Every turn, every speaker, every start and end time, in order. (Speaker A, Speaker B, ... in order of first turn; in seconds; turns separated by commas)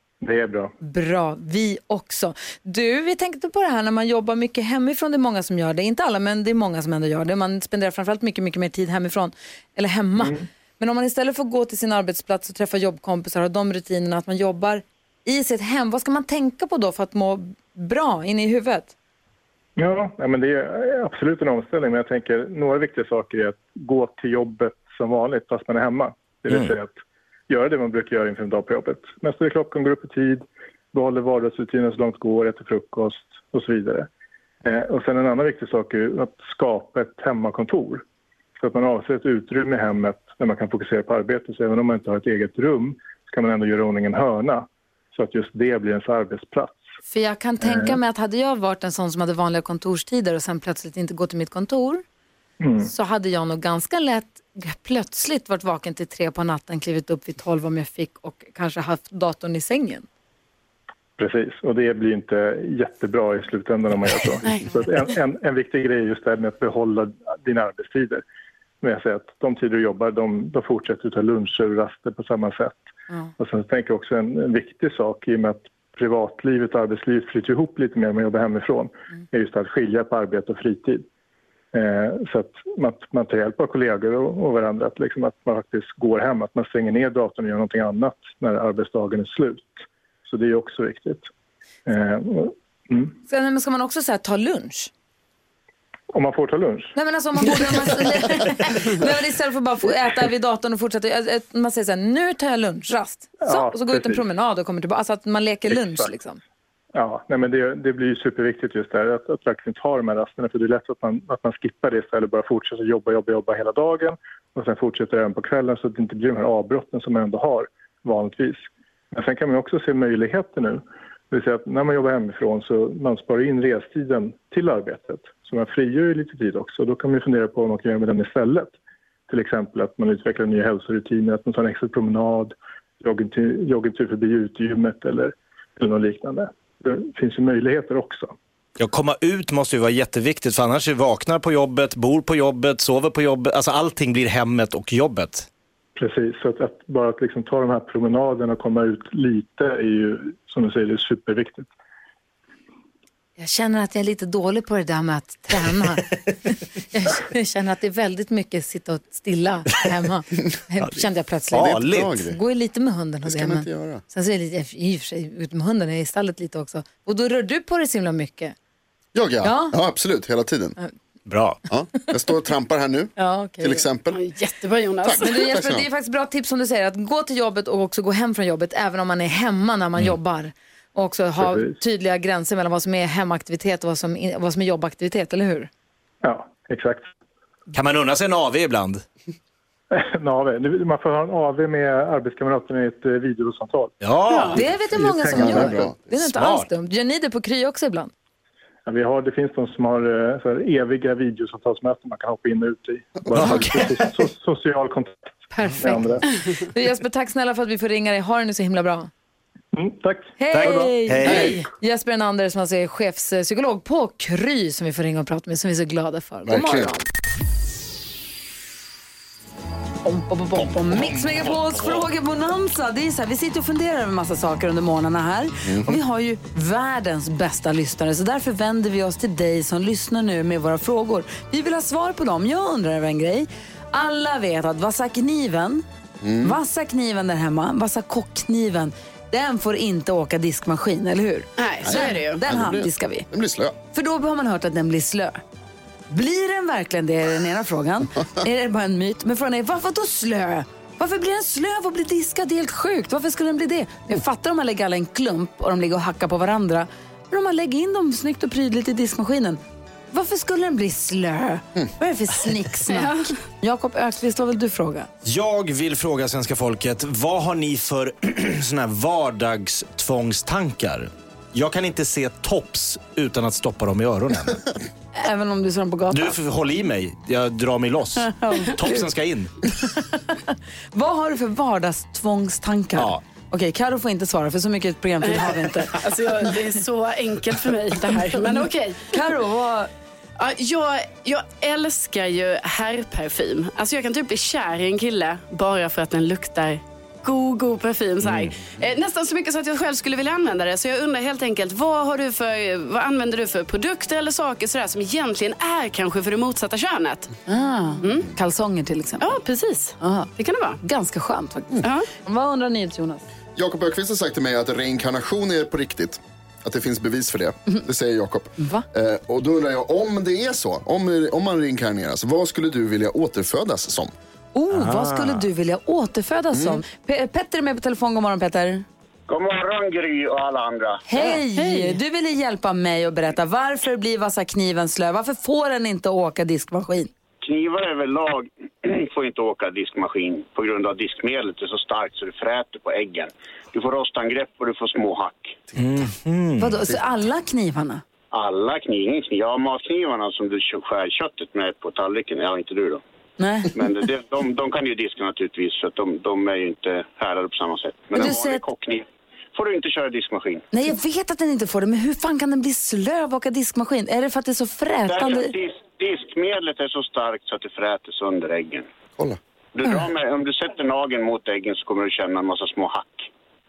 Speaker A: 0.2-0.7, Speaker B: 0.8-18.9, Speaker A: 10.2-10.4, Speaker A: 19.8-26.9, Speaker A: 27.5-34.1, Speaker A: 34.6-38.0, Speaker A: 38.6-46.8, Speaker B: 47.1-52.0, Speaker A: 47.6-47.9, Speaker A: 52.6-52.9, Speaker B: 52.8-60.0, Speaker A: 61.2-68.2, Speaker A: 68.8-72.8, Speaker A: 73.4-81.0, Speaker A: 81.7-91.3, Speaker A: 91.8-93.1, Speaker B: 93.3-94.9, Speaker A: 96.1-97.0, Speaker B: 97.0-106.4, Speaker A: 97.5-98.4, Speaker A: 103.4-104.2, Speaker A: 105.7-106.1, Speaker A: 106.9-128.7, Speaker A: 129.3-138.3, Speaker C: 138.8-145.5, Speaker A: 145.9-151.7, Speaker B: 153.4-168.5, Speaker C: 161.5-162.1, Speaker D: 161.5-162.4, Speaker D: 163.2-164.0, Speaker D: 169.1-170.8, Speaker B: 169.4-169.8, Speaker C: 171.3-171.6, Speaker D: 171.7-174.2, Speaker B: 173.2-173.8, Speaker E: 174.1-175.5, Speaker D: 175.0-175.9, Speaker B: 175.2-185.7, Speaker A: 181.4-181.8, Speaker A: 186.2-187.1, Speaker C: 187.7-189.0, Speaker A: 189.9-194.0, Speaker C: 194.0-194.7, Speaker E: 194.3-194.6, Speaker B: 194.5-198.1, Speaker A: 194.6-195.8, Speaker D: 195.3-196.1, Speaker C: 196.1-196.7, Speaker A: 198.8-205.2, Speaker D: 203.3-203.7, Speaker C: 203.3-203.9, Speaker B: 205.5-209.1, Speaker A: 205.8-206.2, Speaker A: 209.7-211.3, Speaker B: 210.4-217.0, Speaker C: 210.5-211.6, Speaker D: 216.4-216.9, Speaker B: 220.0-235.8, Speaker D: 225.6-225.9, Speaker D: 236.2-236.6, Speaker B: 236.4-243.3, Speaker E: 241.6-242.4, Speaker D: 241.8-243.8, Speaker B: 243.9-245.4, Speaker B: 246.1-259.6, Speaker B: 260.1-265.1, Speaker E: 262.9-263.3, Speaker C: 265.2-274.6, Speaker B: 275.1-276.4, Speaker C: 276.1-279.5, Speaker B: 278.3-279.0, Speaker B: 279.9-286.0, Speaker C: 282.9-283.2, Speaker E: 285.2-289.1, Speaker B: 289.1-289.9, Speaker E: 290.4-307.3, Speaker C: 298.2-298.5, Speaker B: 307.5-309.4, Speaker E: 308.0-308.3, Speaker E: 309.2-310.8, Speaker B: 310.0-310.3, Speaker B: 310.8-313.2, Speaker E: 311.8-312.1, Speaker D: 313.6-324.1, Speaker B: 318.6-318.8, Speaker B: 324.5-328.8, Speaker C: 324.7-325.4, Speaker D: 326.5-326.8, Speaker F: 329.3-331.0, Speaker B: 331.1-337.1, Speaker E: 331.5-332.0, Speaker F: 337.4-345.6, Speaker C: 345.8-346.8, Speaker B: 346.6-348.0, Speaker F: 348.3-353.0, Speaker B: 353.4-353.7, Speaker F: 353.7-360.6, Speaker B: 358.1-358.6, Speaker B: 360.7-365.5, Speaker F: 365.1-368.9, Speaker F: 369.8-373.3